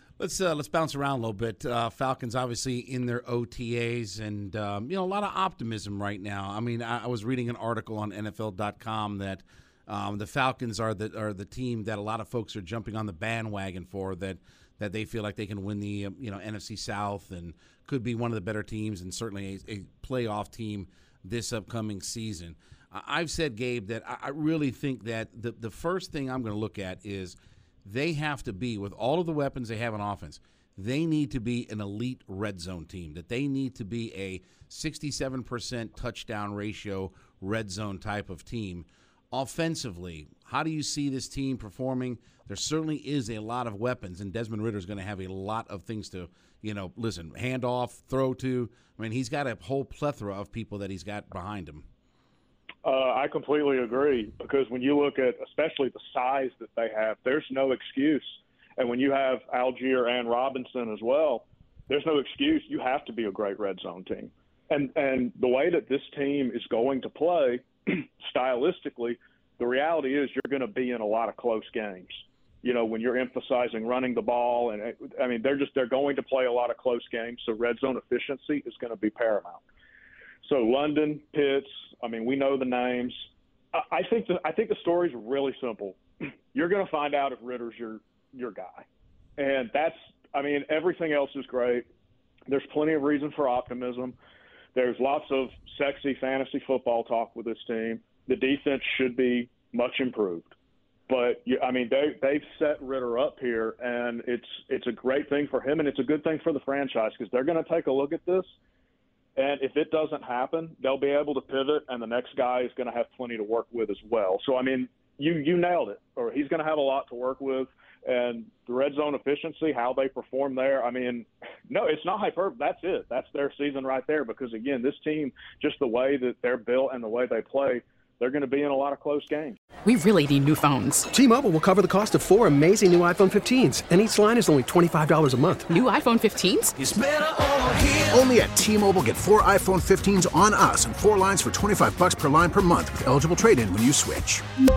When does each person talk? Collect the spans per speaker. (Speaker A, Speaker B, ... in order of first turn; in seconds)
Speaker A: 0.2-51.9
Speaker B: 52.8-79.6, 80.4-86.0, 86.5-88.9, 89.4-91.9, 92.5-94.2, 94.8-100.5, 101.1-108.5, 109.4-129.6
Speaker C: 129.8-131.1, 135.7-136.7
Speaker D: 131.1-135.8
Speaker E: 136.8-144.4